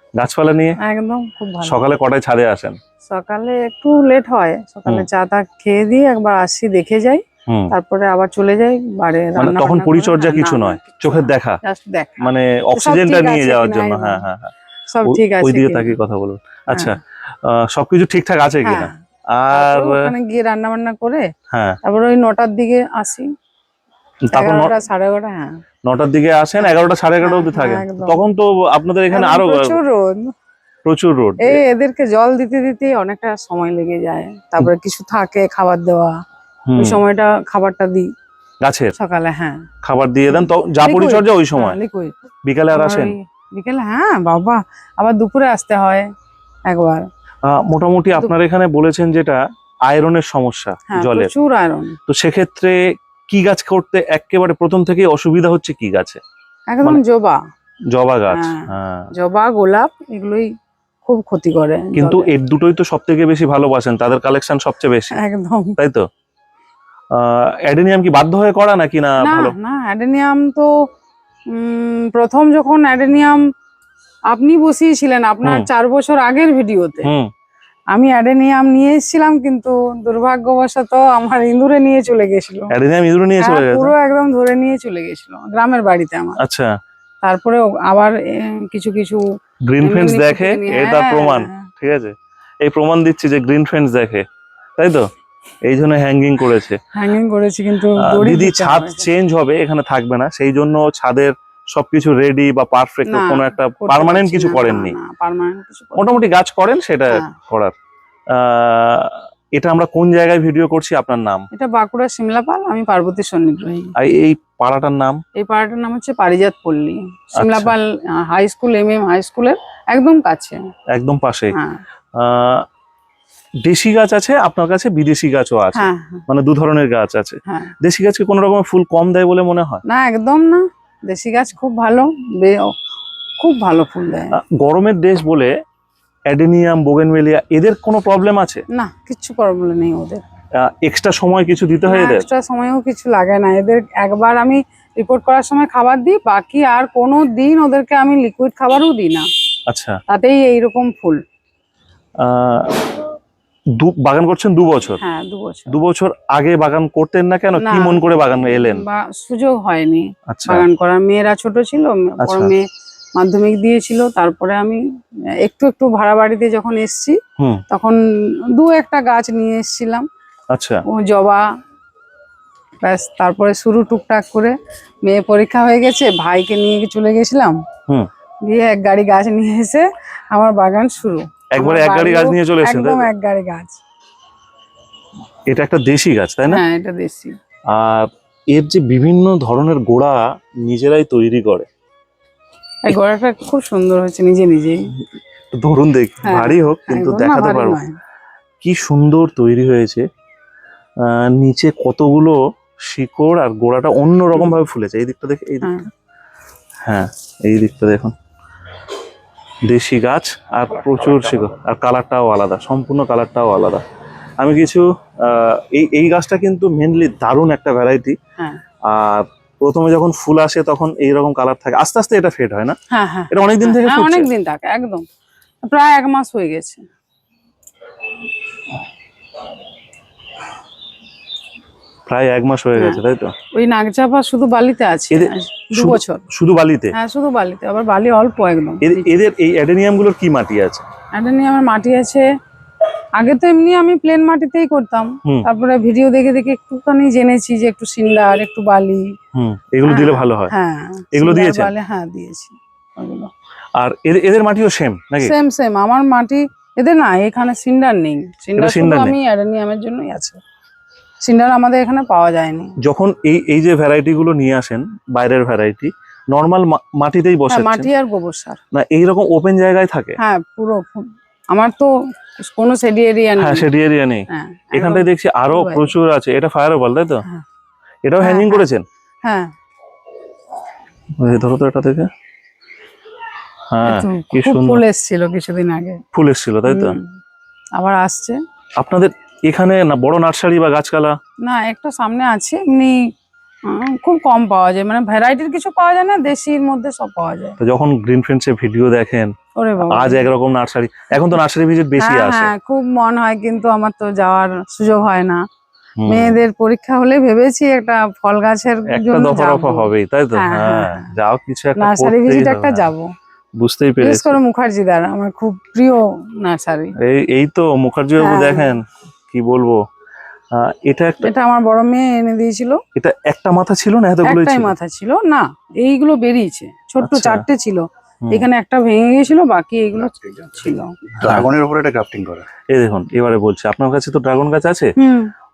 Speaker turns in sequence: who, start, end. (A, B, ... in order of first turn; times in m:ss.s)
0:00.2-0:00.8 A
0:00.8-0:01.8 B
0:01.6-0:02.8 A
0:03.1-0:14.2 B
0:07.5-0:07.7 A
0:09.4-0:11.6 A
0:12.2-0:14.5 A
0:14.9-0:16.0 B
0:15.0-0:20.1 A
0:18.6-0:19.0 B
0:19.5-0:21.3 B
0:21.5-0:21.8 A
0:21.8-0:23.3 B
0:24.3-0:24.7 A
0:24.3-0:25.6 B
0:25.8-0:29.8 A
0:26.6-0:28.2 B
0:29.1-0:30.3 B
0:30.8-0:31.6 A
0:31.4-0:36.2 B
0:36.7-0:37.0 A
0:36.8-0:38.1 B
0:38.6-0:38.9 A
0:38.9-0:39.6 B
0:39.8-0:41.8 A
0:40.3-0:42.1 B
0:42.4-0:43.1 A
0:42.7-0:46.1 B
0:46.6-0:47.1 B
0:47.4-0:51.3 A
0:50.9-0:52.0 B
0:52.1-0:56.2 A
0:56.7-0:57.4 B
0:57.9-0:59.1 A
0:58.3-1:00.5 B
1:01.0-1:02.3 B
1:01.9-1:05.2 A
1:05.1-1:05.8 B
1:05.8-1:06.1 A
1:07.1-1:09.5 A
1:09.2-1:10.7 B
1:11.5-1:13.4 B
1:14.3-1:17.1 B
1:17.0-1:17.3 A
1:17.9-1:22.7 B
1:22.7-1:23.9 A
1:23.4-1:26.4 B
1:26.4-1:26.7 A
1:27.2-1:29.2 B
1:29.7-1:34.2 A
1:29.8-1:31.7 B
1:34.8-1:35.1 A
1:35.6-1:36.8 A
1:36.9-1:39.1 B
1:38.0-1:45.0 A
1:43.0-1:46.2 B
1:46.0-1:47.7 A
1:48.3-1:51.5 A
1:51.5-1:53.9 B
1:54.0-1:55.2 A
1:55.3-2:00.6 B
1:57.4-1:57.7 A
2:00.9-2:01.6 A
2:01.5-2:01.8 B
2:02.1-2:02.6 A
2:03.6-2:09.8 A
2:05.7-2:06.2 B
2:07.5-2:07.7 B
2:09.8-2:12.8 B
2:13.4-2:14.3 B
2:14.3-2:15.5 A
2:16.3-2:18.6 A
2:18.7-2:20.2 B
2:20.6-2:22.2 A
2:21.9-2:29.3 B
2:29.7-2:30.0 A
2:30.1-2:31.2 B
2:32.2-2:32.9 A
2:33.8-2:35.0 A
2:35.0-2:35.7 B
2:35.7-2:38.8 A
2:37.6-2:44.8 B
2:40.3-2:40.6 A
2:42.2-2:42.5 A
2:45.4-2:48.0 B
2:48.5-2:50.1 B
2:50.5-2:50.8 A
2:50.9-2:51.4 B
2:52.8-2:57.6 B
2:58.4-3:03.8 B
3:01.5-3:03.1 A
3:05.5-3:06.6 A
3:06.5-3:07.4 B
3:07.7-3:11.7 A
3:12.8-3:14.9 B
3:15.6-3:17.8 A
3:16.2-3:18.0 B
3:18.6-3:20.0 A
3:21.0-3:25.8 A
3:25.6-3:25.9 B
3:26.8-3:28.1 A
3:29.7-3:33.8 A
3:34.4-3:38.2 A
3:38.8-3:42.8 A
3:42.9-3:45.0 B
3:43.3-3:44.3 A
3:45.6-3:46.9 B
3:52.1-3:53.3 A
3:52.8-3:53.0 B
3:53.5-3:56.2 B
3:55.1-3:56.9 A
3:56.9-3:59.1 B
3:58.8-4:00.8 A
4:01.1-4:02.3 B
4:03.2-4:09.1 B
4:09.3-4:10.5 A
4:09.8-4:13.3 B
4:11.1-4:11.7 A
4:13.8-4:15.3 A
4:15.2-4:20.4 B
4:18.6-4:19.1 A
4:21.2-4:22.8 B
4:22.8-4:27.9 A
4:27.5-4:28.6 B
4:28.7-4:30.2 A
4:30.2-4:33.7 B
4:33.4-4:37.2 A
4:34.3-4:35.9 B
4:38.0-4:38.8 A
4:38.2-4:38.6 B
4:39.2-4:39.5 B
4:41.2-4:42.1 A
4:43.7-4:44.8 A
4:43.8-4:46.0 B
4:46.1-4:47.0 A
4:46.7-4:47.1 B
4:47.7-4:48.4 B
4:48.8-4:51.2 A
4:51.4-4:53.1 B
4:53.6-4:57.6 B
4:57.6-4:59.3 A
4:59.5-5:00.3 B
4:59.9-5:02.5 A
5:02.0-5:05.4 B
5:06.0-5:06.4 A
5:06.1-5:11.1 B
5:08.9-5:12.9 A
5:11.8-5:13.1 B
5:13.6-5:14.4 A
5:14.0-5:16.9 B
5:17.0-5:19.8 A
5:18.2-5:18.7 B
5:20.5-5:21.3 A
5:21.2-5:22.8 B
5:23.0-5:24.7 A
5:24.2-5:30.9 B
5:27.0-5:27.4 A
5:30.0-5:32.4 C
5:31.2-5:31.5 A
5:32.7-5:34.9 A
5:35.0-5:35.3 B